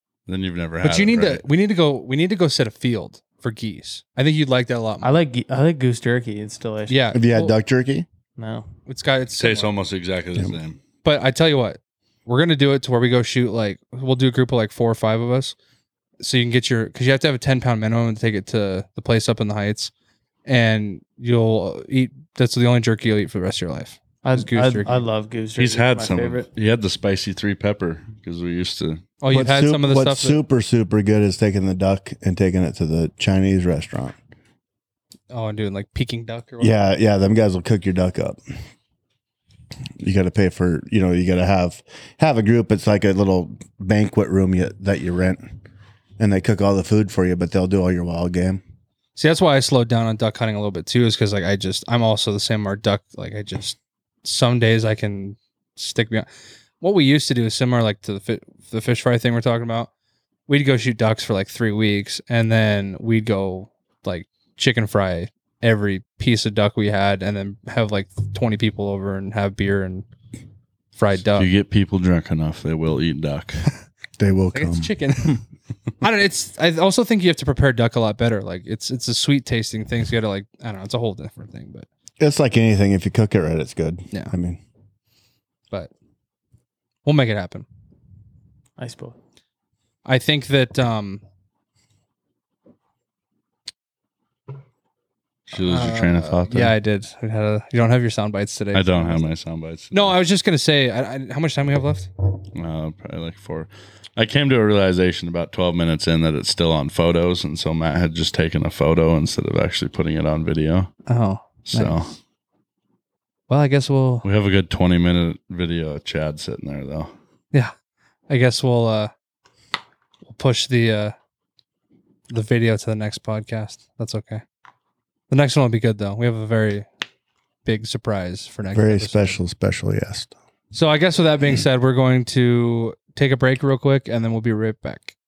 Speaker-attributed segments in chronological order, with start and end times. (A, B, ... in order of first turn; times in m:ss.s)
0:00.3-0:01.4 A
0:00.8-0:05.1 B
0:05.0-0:07.0 C
0:06.9-0:07.5 B
0:07.1-0:08.0 D
0:08.4-0:08.6 C
0:08.8-0:09.7 B
0:09.4-0:10.8 A
0:11.0-0:15.5 B
0:16.2-0:19.9 B
0:20.4-0:25.0 B
0:24.2-0:26.5 C
0:25.6-0:29.0 A
0:29.2-0:30.4 B
0:29.3-0:34.1 D
0:35.3-0:36.7 B
0:36.6-0:38.4 D
0:40.0-0:45.4 D
0:46.2-0:48.6 D
0:49.2-0:56.3 B
0:56.8-0:59.9 B
1:00.5-1:10.0 B
1:11.0-1:11.5 B
1:11.3-1:13.6 A
1:14.2-1:14.9 D
1:14.5-1:15.4 B
1:16.0-1:21.8 B
1:22.2-1:24.6 D
1:27.0-1:27.6 B
1:28.8-1:29.2 C
1:30.0-1:31.2 B
1:35.5-1:36.7 A
1:35.5-1:39.3 B
1:38.7-1:40.2 A
1:39.9-1:42.1 B
1:42.5-1:50.9 A
1:51.1-1:52.0 B
1:51.6-1:52.1 A
1:53.5-1:54.2 B
1:54.2-1:57.1 A
1:58.3-1:59.1 B
2:00.3-2:01.1 B
2:02.3-2:04.4 B
2:05.3-2:06.8 B
2:07.6-2:09.4 B
2:08.7-2:10.3 D
2:10.7-2:15.1 B